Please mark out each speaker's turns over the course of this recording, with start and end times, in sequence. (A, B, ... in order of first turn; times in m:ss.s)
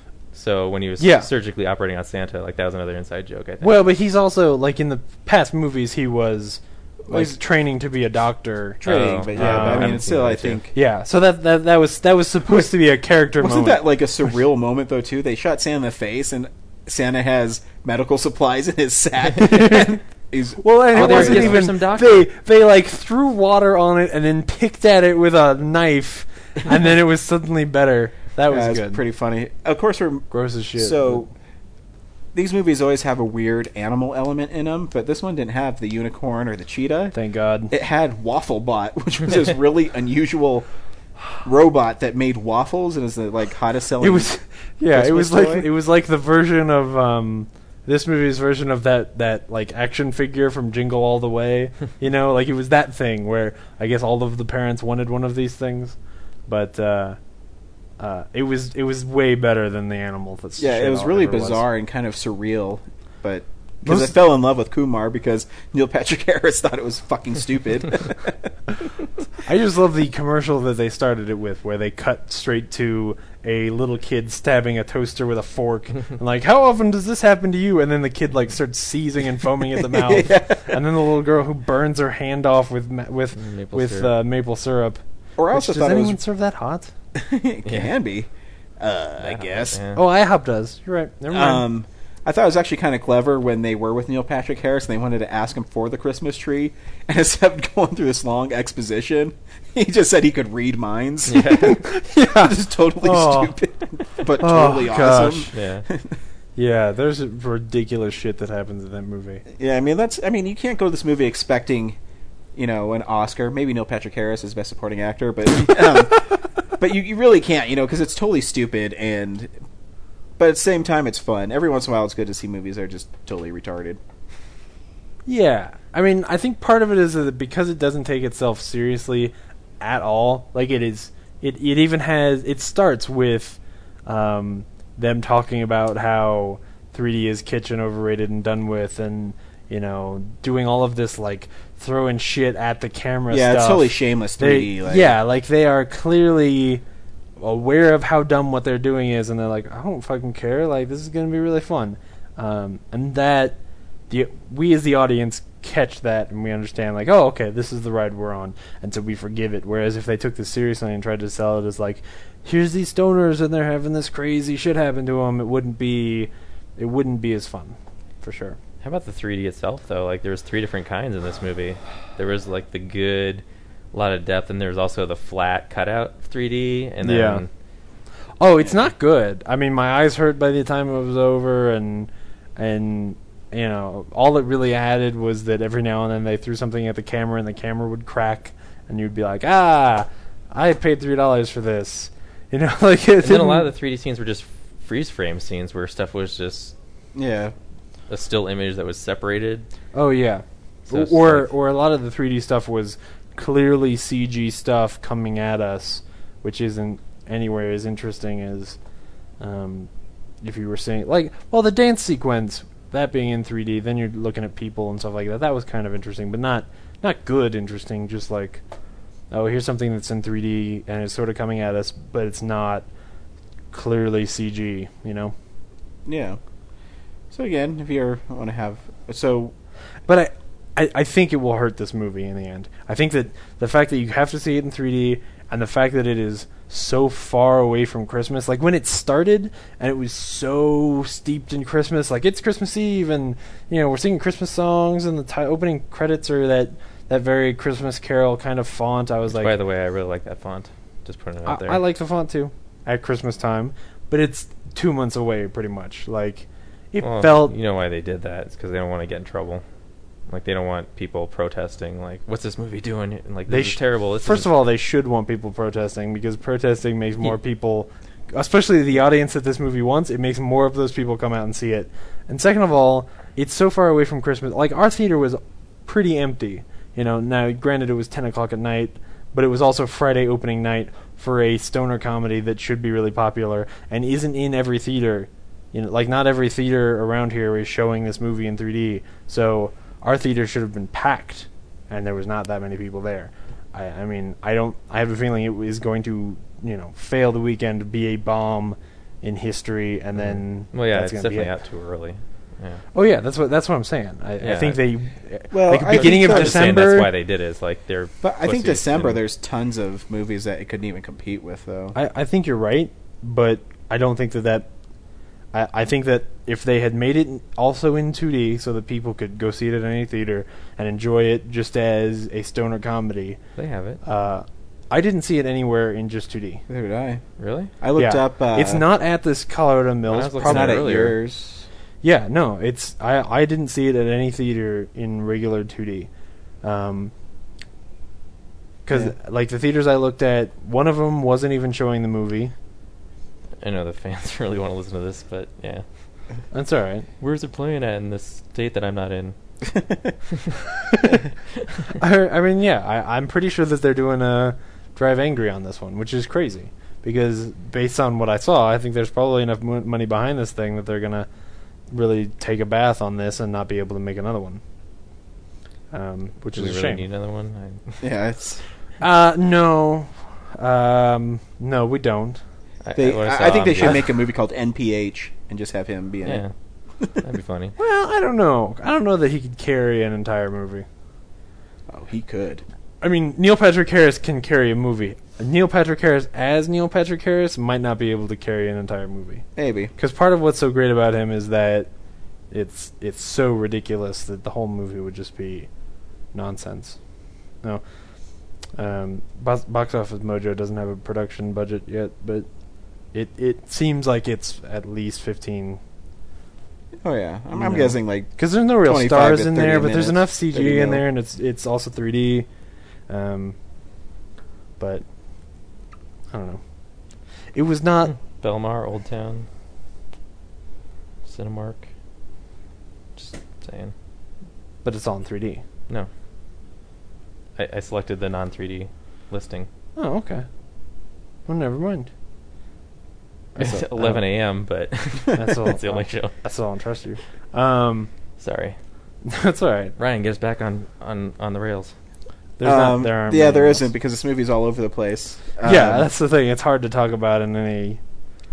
0:00.3-0:03.9 A
0:01.0-0:01.3 B
0:03.6-0:08.8 B
0:07.1-0:07.4 C
0:08.8-0:10.6 A
0:08.8-0:10.7 C
0:09.3-0:10.0 B
0:10.7-0:13.8 B
0:13.4-0:21.7 C
0:19.4-0:20.0 B
0:20.6-0:29.0 B
0:20.9-0:22.3 A
0:28.5-0:31.3 C
0:30.3-0:31.2 B
0:32.3-0:37.1 C
0:37.1-0:37.7 B
0:37.7-0:40.7 C
0:41.4-0:44.3 C
0:44.0-0:56.0 B
0:44.9-0:45.7 C
0:56.5-0:57.2 B
0:58.0-1:01.6 B
1:00.6-1:08.3 C
1:03.8-1:04.1 B
1:09.4-1:25.0 B
1:19.8-1:20.8 C
1:23.3-1:24.1 A
1:25.4-1:26.2 C
1:25.5-1:26.9 B
1:27.1-1:28.3 C
1:27.6-1:27.9 A
1:28.8-1:29.8 C
1:29.2-1:30.0 A
1:29.9-1:31.7 B
1:31.3-1:46.2 C
1:41.2-1:41.8 A
1:41.8-1:43.5 B
1:44.4-1:45.5 B
1:45.5-1:45.9 A
1:46.6-1:49.4 B
1:49.5-1:52.0 C
1:52.5-1:59.5 C
2:00.4-2:04.0 C
2:05.2-2:26.8 B
2:23.3-2:25.2 C
2:27.4-2:33.6 B
2:34.1-2:48.6 B
2:48.8-2:57.5 A
2:57.0-2:57.4 B
2:58.4-3:13.7 B
3:13.2-3:16.7 A
3:17.1-3:17.5 C
3:18.1-3:19.7 A
3:19.9-3:28.8 B
3:20.8-3:21.5 A
3:29.4-3:29.9 B
3:30.4-3:38.6 B
3:39.3-3:42.9 B
3:43.7-3:45.3 B
3:46.0-3:46.4 C
3:47.3-3:49.5 C
3:50.1-4:09.5 B
4:09.3-4:11.8 A
4:11.4-4:17.5 B
4:17.0-4:19.6 A
4:20.3-4:24.5 A
4:23.5-5:01.5 B
5:00.1-5:02.8 A
5:02.9-5:07.1 B
5:04.4-5:04.8 A
5:05.5-5:06.8 C
5:05.9-5:09.2 A
5:08.2-5:11.9 C
5:11.9-5:14.7 B
5:15.5-5:23.4 B
5:23.6-5:24.0 A
5:24.0-5:26.6 B
5:26.7-5:27.2 C
5:27.4-5:27.7 A
5:27.8-5:28.8 C
5:28.0-5:30.8 B
5:30.1-5:31.2 A
5:30.4-5:31.7 C
5:32.0-5:36.1 B
5:36.6-5:37.1 B
5:38.8-5:42.5 B
5:43.6-5:45.8 A
5:46.5-5:47.1 B
5:47.2-5:49.4 A
5:50.3-5:50.6 A
5:51.6-5:51.8 A
5:52.0-6:01.3 B
6:01.9-6:04.6 B
6:05.9-6:07.0 B
6:06.5-6:08.0 A
6:08.0-6:08.6 C
6:09.0-6:12.4 B
6:12.8-6:14.1 A
6:13.0-6:16.4 C
6:16.2-6:16.5 A
6:17.2-6:17.8 A
6:17.8-6:20.8 B
6:21.9-6:22.6 C
6:23.0-6:31.9 B
6:29.6-6:29.9 C
6:32.5-6:35.7 B
6:36.3-6:37.0 B
6:38.8-6:42.5 B
6:43.1-6:45.8 B
6:47.0-6:51.0 C
6:47.5-6:52.5 B
6:53.1-6:53.5 B
6:54.8-6:55.0 B
6:56.3-6:56.6 B
6:57.5-6:58.2 B
6:58.1-6:59.5 A
7:01.2-7:01.9 A
7:03.1-7:03.9 A
7:04.8-7:05.6 B
7:07.6-7:09.7 A
7:10.0-7:10.4 B
7:11.5-7:12.1 B
7:13.6-7:14.2 B
7:13.6-7:16.3 A
7:15.3-7:18.1 B
7:18.4-7:18.8 A
7:19.2-7:19.9 B
7:20.0-7:21.9 A
7:22.6-7:23.9 B
7:22.6-7:26.1 C
7:25.6-7:28.0 B